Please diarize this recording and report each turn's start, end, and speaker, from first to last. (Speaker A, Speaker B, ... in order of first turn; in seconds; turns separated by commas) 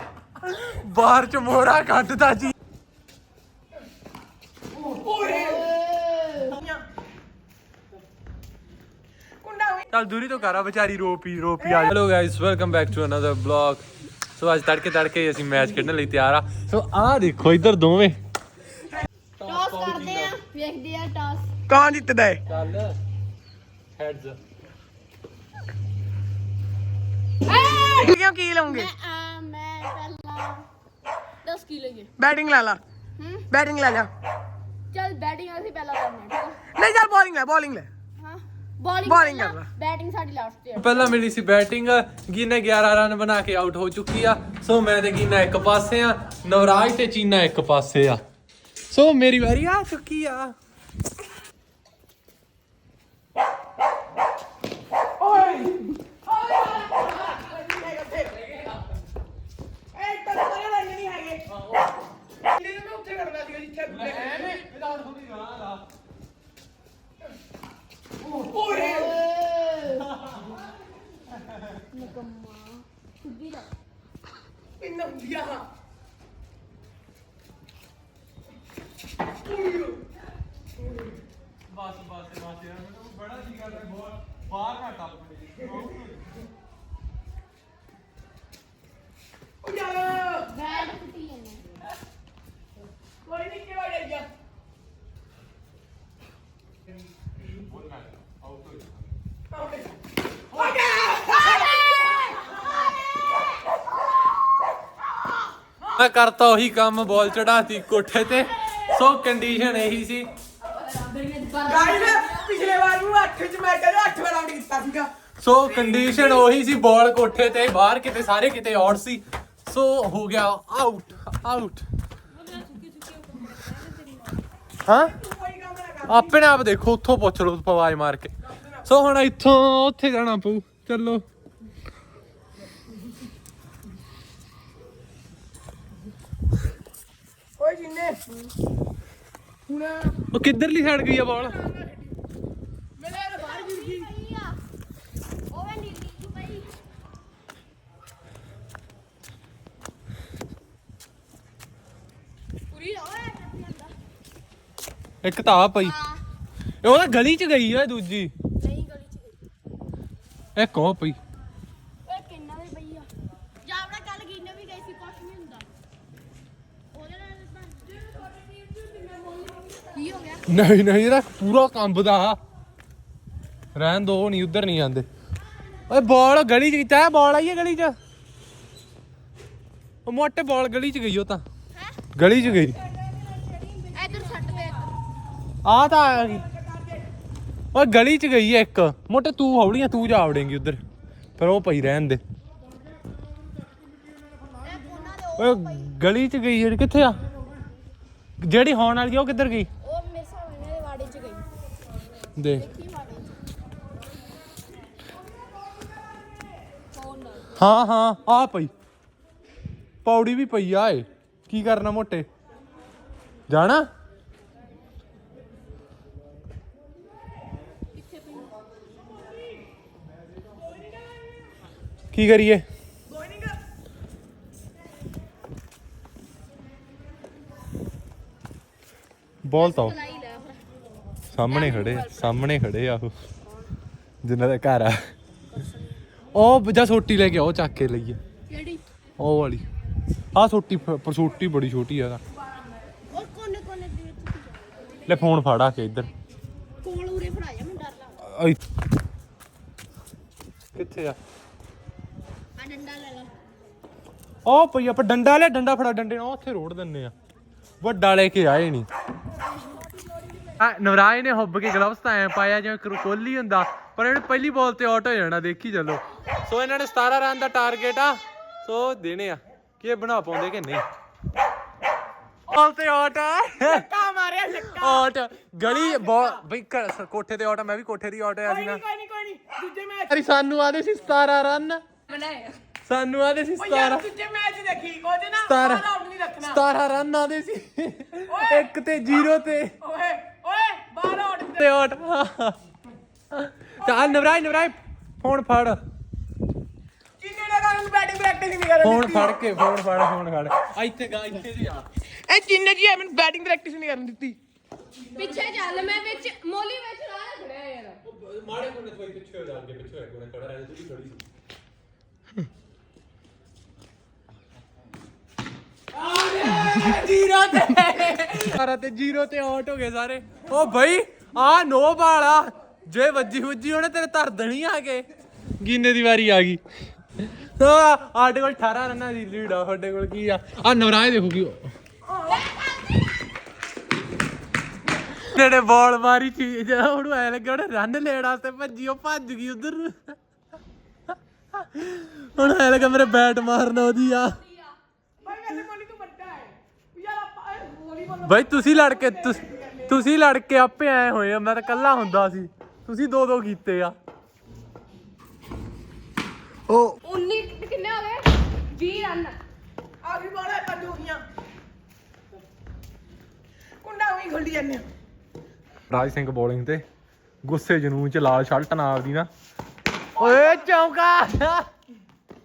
Speaker A: 0.4-2.5, Speaker B: 4.7-5.7, Speaker C: 5.2-6.5, Speaker B: 6.5-6.8, Speaker B: 9.4-9.9, Speaker A: 9.9-13.8, Speaker B: 11.6-11.9, Speaker A: 14.3-18.2, Speaker A: 19.4-20.3, Speaker C: 19.4-21.5, Speaker B: 21.7-22.4, Speaker A: 22.5-23.0, Speaker A: 23.9-24.4, Speaker C: 27.5-28.1, Speaker B: 27.5-28.9, Speaker C: 28.6-30.7, Speaker C: 31.4-32.1, Speaker B: 32.2-32.8, Speaker C: 33.2-33.5, Speaker B: 33.5-34.1, Speaker C: 34.9-36.6, Speaker B: 36.7-37.9, Speaker C: 38.2-41.2, Speaker B: 39.0-39.7, Speaker A: 40.8-48.2, Speaker A: 48.9-50.5, Speaker B: 55.2-58.4, Speaker B: 59.9-61.5, Speaker B: 62.4-64.6, Speaker A: 63.9-65.8, Speaker B: 68.2-69.2, Speaker C: 68.7-70.1, Speaker C: 71.9-73.7, Speaker B: 74.8-75.7, Speaker B: 79.4-80.0, Speaker A: 81.7-86.3, Speaker B: 89.6-90.5, Speaker C: 90.5-91.7, Speaker B: 93.2-94.3, Speaker A: 97.6-99.0, Speaker B: 99.5-100.0, Speaker B: 100.5-101.9, Speaker C: 101.4-102.0, Speaker A: 105.9-110.3, Speaker C: 110.7-112.5, Speaker B: 111.6-115.1, Speaker A: 115.4-121.9, Speaker B: 115.7-116.5, Speaker C: 122.5-124.0, Speaker A: 124.8-125.2, Speaker B: 124.9-126.5, Speaker A: 126.1-131.2, Speaker B: 128.6-128.8, Speaker B: 137.6-138.3, Speaker B: 139.7-140.2, Speaker A: 140.3-141.6, Speaker B: 141.5-142.1, Speaker B: 143.0-144.1, Speaker C: 143.3-144.6, Speaker C: 145.5-146.8, Speaker C: 152.7-153.9, Speaker A: 155.2-156.0, Speaker C: 155.8-156.2, Speaker A: 156.8-158.3, Speaker C: 158.6-159.4, Speaker A: 160.6-161.2, Speaker C: 162.1-163.1, Speaker C: 163.6-165.7, Speaker C: 166.9-170.4, Speaker A: 170.5-172.4, Speaker A: 173.8-175.1, Speaker A: 175.9-178.0, Speaker A: 180.1-181.4, Speaker A: 182.1-182.8, Speaker C: 183.8-184.9, Speaker A: 185.7-186.4, Speaker B: 186.2-187.0, Speaker A: 187.7-190.8, Speaker A: 191.4-192.2, Speaker C: 194.6-195.9, Speaker A: 195.4-197.2, Speaker A: 198.4-199.7, Speaker C: 199.8-201.5, Speaker A: 202.4-202.7, Speaker C: 202.5-203.4, Speaker C: 206.9-207.6, Speaker A: 207.6-208.7, Speaker A: 210.1-212.3, Speaker A: 213.5-213.9, Speaker C: 218.2-218.5, Speaker B: 220.6-221.3, Speaker A: 222.1-222.7, Speaker B: 223.1-223.6, Speaker A: 229.4-230.0, Speaker C: 229.6-230.6, Speaker A: 231.3-233.1, Speaker C: 231.5-232.4, Speaker A: 234.2-235.1, Speaker C: 235.6-235.9, Speaker A: 236.3-238.2, Speaker C: 238.5-238.8, Speaker A: 239.2-239.7, Speaker A: 240.3-242.2, Speaker C: 243.1-245.3, Speaker A: 245.1-246.1, Speaker C: 246.8-248.2, Speaker A: 248.2-248.6, Speaker A: 250.8-251.2, Speaker C: 252.6-253.3, Speaker A: 254.5-257.1, Speaker A: 257.8-258.9, Speaker A: 260.6-270.9, Speaker A: 272.5-273.9, Speaker B: 273.6-275.1, Speaker A: 274.7-278.8, Speaker B: 275.6-276.4, Speaker B: 278.4-280.2, Speaker A: 280.1-281.8, Speaker C: 282.1-282.5, Speaker A: 282.9-284.1, Speaker B: 283.6-286.6, Speaker A: 285.4-285.9, Speaker A: 286.4-289.8, Speaker B: 288.3-288.7, Speaker B: 289.8-291.7, Speaker A: 291.6-292.6, Speaker A: 293.3-295.8, Speaker B: 293.8-294.1, Speaker B: 297.2-299.4, Speaker A: 298.8-301.9, Speaker B: 302.3-304.4, Speaker C: 305.1-308.0, Speaker A: 308.0-311.2, Speaker A: 315.9-325.1, Speaker A: 325.6-326.6, Speaker A: 327.2-331.7, Speaker A: 335.2-340.1, Speaker A: 341.5-344.4, Speaker B: 345.2-350.0, Speaker A: 348.2-353.9, Speaker C: 356.8-359.4, Speaker B: 360.0-361.2, Speaker B: 363.8-364.9, Speaker A: 365.9-366.9, Speaker A: 367.4-369.3, Speaker A: 370.2-371.7, Speaker B: 370.2-370.7